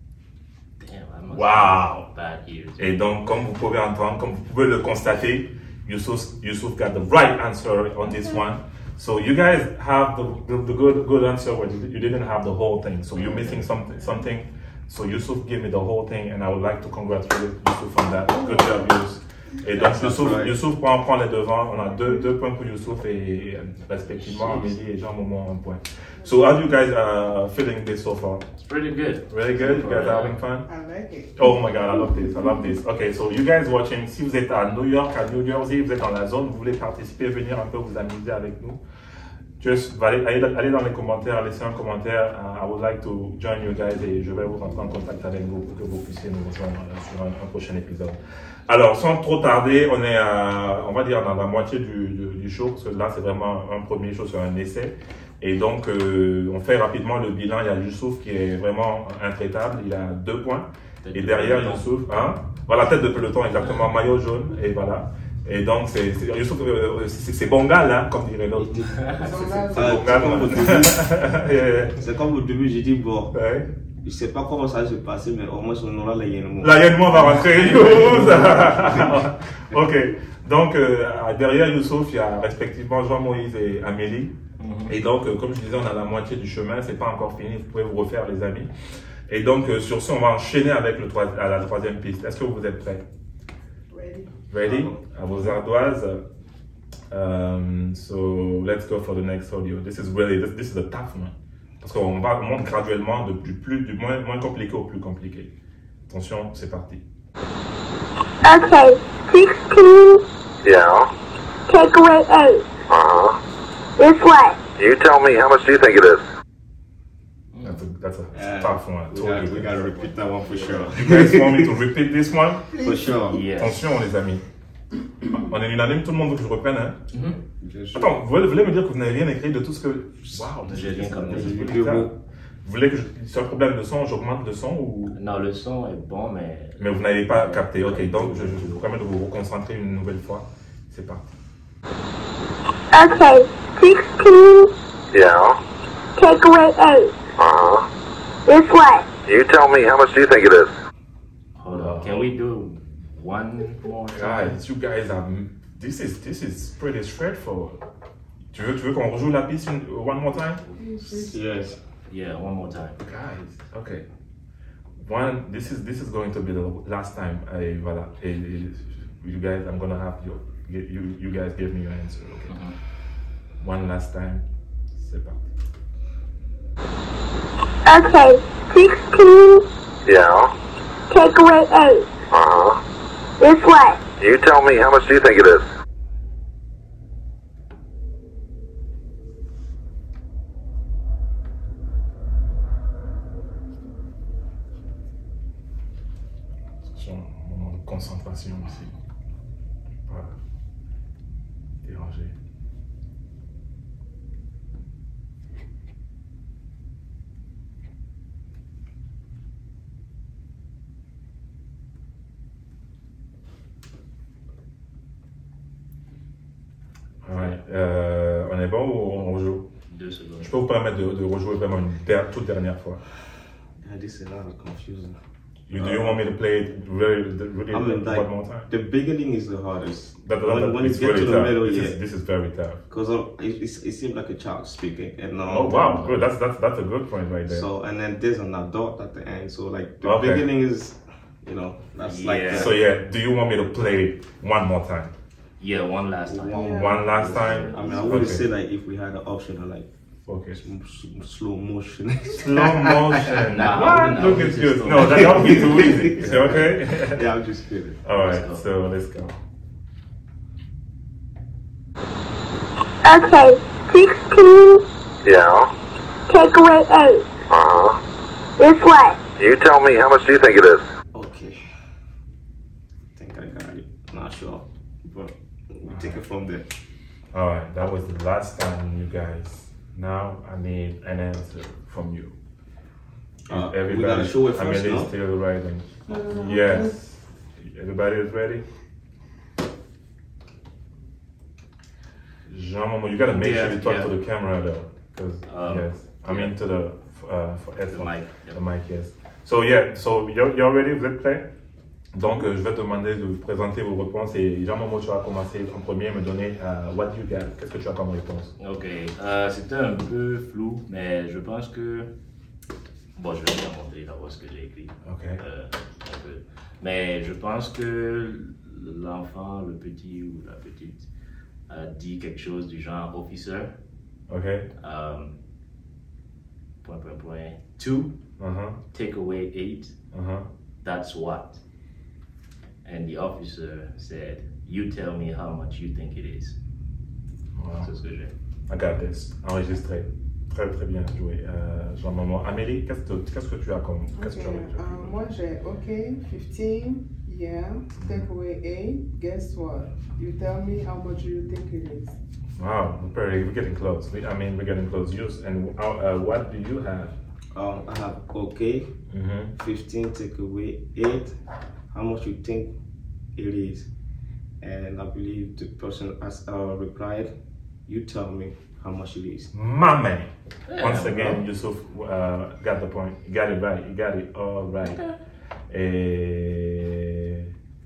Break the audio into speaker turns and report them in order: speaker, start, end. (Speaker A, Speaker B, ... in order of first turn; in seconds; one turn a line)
Speaker A: 0.8-3.0
Speaker B: 1.3-2.1
Speaker B: 2.8-28.5
Speaker A: 13.2-13.6
Speaker C: 18.3-18.8
Speaker D: 19.7-20.5
Speaker A: 24.2-24.8
Speaker A: 28.6-30.4
Speaker B: 29.3-30.7
Speaker C: 30.7-32.5
Speaker B: 31.4-38.8
Speaker B: 39.6-72.0
Speaker A: 61.0-61.9
Speaker A: 68.9-69.2
Speaker C: 69.2-70.5
Speaker D: 69.7-71.2
Speaker D: 72.0-73.3
Speaker B: 73.3-73.7
Speaker D: 74.0-76.8
Speaker B: 76.6-88.7
Speaker D: 77.9-79.2
Speaker A: 84.6-84.9
Speaker B: 89.3-93.1
Speaker C: 93.9-94.3
Speaker B: 94.5-96.3
Speaker D: 94.6-95.0
Speaker B: 97.1-105.5
Speaker B: 106.1-107.0
Speaker E: 108.4-110.2
Speaker F: 110.6-111.1
Speaker E: 111.7-112.7
Speaker F: 112.9-113.4
Speaker E: 114.0-114.6
Speaker F: 114.8-116.2
Speaker A: 117.5-117.8
Speaker B: 117.6-119.9
Speaker D: 118.3-121.7
Speaker B: 121.0-122.9
Speaker C: 122.7-123.0
Speaker D: 122.8-123.5
Speaker A: 123.3-123.9
Speaker B: 123.5-124.4
Speaker B: 125.3-127.0
Speaker A: 127.1-127.4
Speaker D: 127.3-128.1
Speaker B: 128.0-132.1
Speaker A: 130.6-131.8
Speaker D: 131.0-132.2
Speaker B: 132.6-135.2
Speaker A: 135.1-138.8
Speaker B: 136.8-141.3
Speaker E: 142.9-144.7
Speaker F: 145.1-145.6
Speaker E: 146.2-147.2
Speaker F: 147.4-147.9
Speaker E: 148.5-149.1
Speaker F: 149.2-150.8
Speaker A: 151.6-154.6
Speaker B: 151.7-152.2
Speaker B: 154.1-157.8
Speaker B: 158.5-160.6
Speaker C: 160.8-161.4
Speaker D: 161.2-161.8
Speaker A: 162.1-163.0
Speaker B: 163.0-164.1
Speaker B: 165.0-172.6
Speaker A: 172.5-172.8
Speaker B: 173.6-175.5
Speaker E: 177.8-179.7
Speaker F: 180.1-180.5
Speaker E: 181.1-182.1
Speaker F: 182.3-182.8
Speaker E: 183.4-184.0
Speaker F: 184.2-185.7
Speaker B: 196.8-198.9
Speaker B: 200.1-200.4
Speaker B: 201.8-202.3
Speaker B: 217.2-219.7
Speaker A: 217.3-217.6
Speaker A: 219.9-220.5
Speaker B: 220.4-223.1
Speaker D: 223.8-225.2
Speaker B: 225.7-228.7
Speaker D: 225.8-226.2
Speaker D: 227.7-232.0
Speaker B: 230.2-232.8
Speaker D: 232.9-236.1
Speaker B: 235.5-237.7
Speaker D: 237.5-242.7
Speaker B: 240.0-240.5
Speaker A: 242.0-242.7
Speaker B: 242.5-245.1
Speaker A: 245.6-248.4
Speaker D: 246.3-249.9
Speaker C: 246.5-247.1
Speaker B: 246.7-248.5
Speaker C: 247.7-248.2
Speaker B: 250.3-250.6
Speaker D: 250.5-254.4
Speaker B: 252.3-257.2
Speaker A: 253.5-255.9
Speaker D: 255.0-258.0
Speaker B: 258.0-259.4
Speaker A: 258.1-258.6
Speaker E: 263.0-264.8
Speaker F: 265.2-265.7
Speaker E: 266.3-267.3
Speaker F: 267.5-268.0
Speaker E: 268.6-269.2
Speaker F: 269.4-270.9
Speaker D: 271.1-271.6
Speaker D: 273.2-276.7
Speaker B: 275.9-276.2
Speaker B: 277.3-282.4
Speaker D: 283.5-285.1
Speaker B: 283.5-288.7
Speaker C: 286.1-287.0
Speaker B: 292.5-301.5
Speaker A: 293.3-294.1
Speaker A: 295.5-296.5
Speaker A: 297.9-298.6
Speaker B: 302.1-308.5
Speaker A: 308.6-312.1
Speaker A: 313.1-321.1
Speaker B: 315.0-315.4
Speaker A: 321.7-323.7
Speaker B: 324.3-324.7
Speaker A: 324.8-325.3
Speaker A: 326.8-328.1
Speaker B: 328.4-328.8
Speaker A: 328.9-329.9
Speaker B: 330.1-330.5
Speaker A: 330.8-331.6
Speaker A: 332.8-336.6
Speaker B: 337.6-337.9
Speaker A: 337.8-338.3
Speaker B: 338.7-345.2
Speaker C: 344.2-352.2
Speaker B: 348.0-348.3
Speaker B: 352.6-357.2
Speaker D: 357.5-358.9
Speaker B: 359.1-359.5
Speaker D: 359.6-361.4
Speaker D: 361.9-362.7
Speaker D: 363.4-363.9
Speaker D: 364.6-367.3
Speaker D: 367.9-369.5
Speaker B: 369.5-375.0
Speaker A: 370.7-371.4
Speaker A: 374.9-375.1
Speaker B: 375.7-377.5